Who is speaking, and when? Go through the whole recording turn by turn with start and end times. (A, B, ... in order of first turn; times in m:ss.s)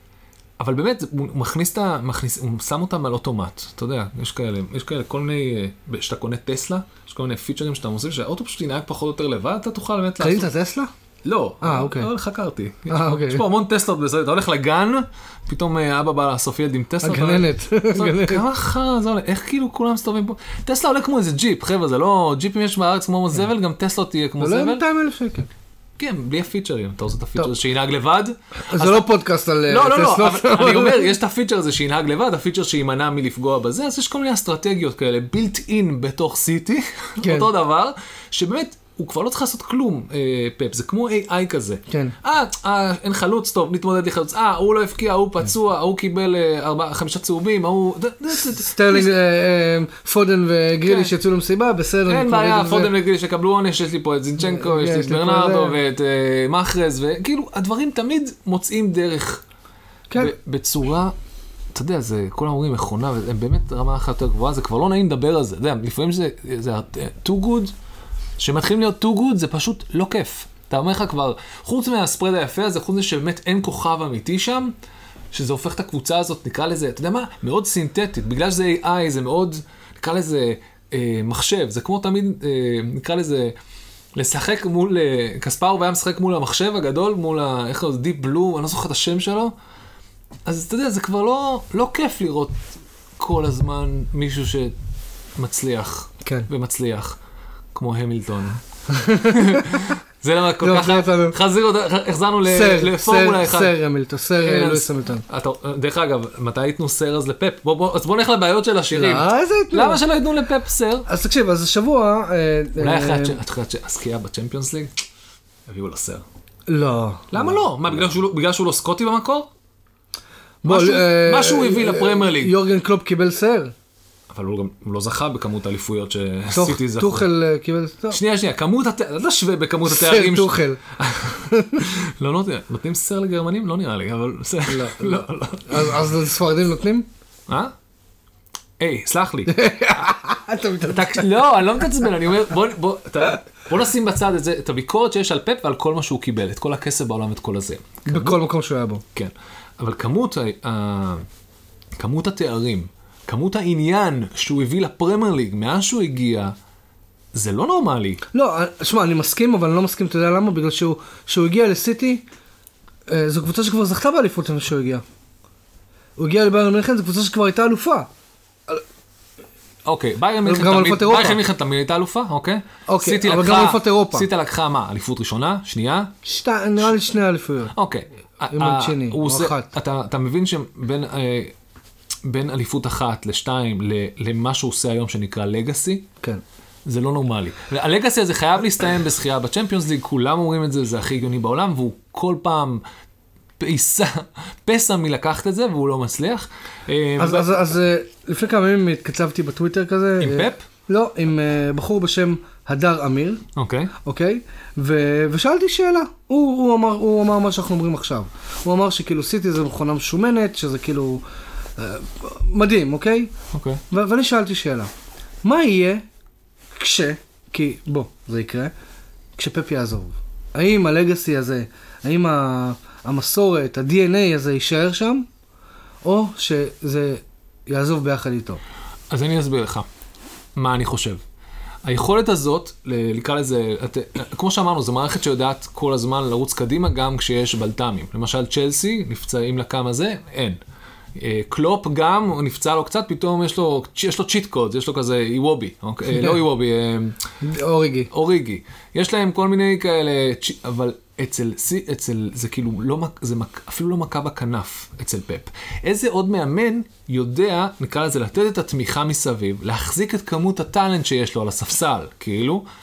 0:00.6-0:10.5 A
0:10.2-0:10.9 B
0:11.2-0:24.8 A
0:11.6-0:12.1 B
0:12.9-0:13.4 B
0:17.0-0:18.4 B
0:24.4-0:25.5 B
0:26.0-0:29.1 A
0:28.7-0:31.1 B
0:29.7-0:49.1 A
0:37.2-0:37.5 B
0:41.9-0:42.2 B
0:48.7-0:52.9 B
0:50.8-0:51.1 A
0:52.1-0:59.4 A
0:54.4-0:55.8 B
1:00.2-1:01.1 A
1:01.7-1:07.7 A
1:08.4-1:14.7 A
1:15.3-1:23.6 A
1:24.2-1:29.5 A
1:30.5-1:32.6 A
1:33.2-1:34.7 A
1:35.4-1:37.2 A
1:37.7-1:38.6 A
1:38.9-1:40.0 B
1:39.3-1:43.7 A
1:40.6-1:41.4 B
1:42.4-1:45.2 B
1:44.4-1:51.1 A
1:48.9-1:50.0 B
1:51.1-1:53.4 B
1:52.8-1:54.9 A
1:55.7-1:56.2 A
1:56.7-1:57.6 B
1:57.3-1:59.5 A
2:00.6-2:03.7 B
2:00.6-2:02.6 A
2:04.3-2:07.3 A
2:06.5-2:08.2 B
2:08.1-2:16.0 A
2:09.9-2:11.9 B
2:14.7-2:17.1 B
2:17.5-2:17.7 A
2:18.8-2:19.6 A
2:19.5-2:21.4 B
2:20.9-2:28.4 A
2:28.1-2:29.0 B
2:29.2-2:31.3 A
2:32.0-2:36.5 A
2:37.3-2:38.2 A
2:38.3-2:42.2 B
2:43.1-2:45.0 B
2:46.2-2:48.1 B
2:49.8-2:56.1 A
2:50.4-2:51.4 B
2:52.9-2:54.3 B
2:56.2-2:57.7 B
2:57.7-3:01.5 A
2:58.5-2:59.7 B
3:02.2-3:06.1 A
3:06.9-3:12.8 A
3:13.6-3:17.5 A
3:17.2-3:23.4 B
3:20.2-3:20.6 A
3:23.6-3:23.9 A
3:24.0-3:31.2 B
3:31.8-3:33.3 B
3:33.5-3:33.8 A
3:33.9-3:34.9 B
3:35.4-3:36.0 B
3:36.8-3:38.7 B
3:39.4-3:45.3 B
3:46.0-3:48.6 B
3:49.1-3:49.9 A
3:50.6-3:51.2 A
3:51.8-4:00.6 A
4:01.2-4:07.2 A
4:06.1-4:06.4 B
4:07.4-4:08.1 B
4:08.1-4:22.6 A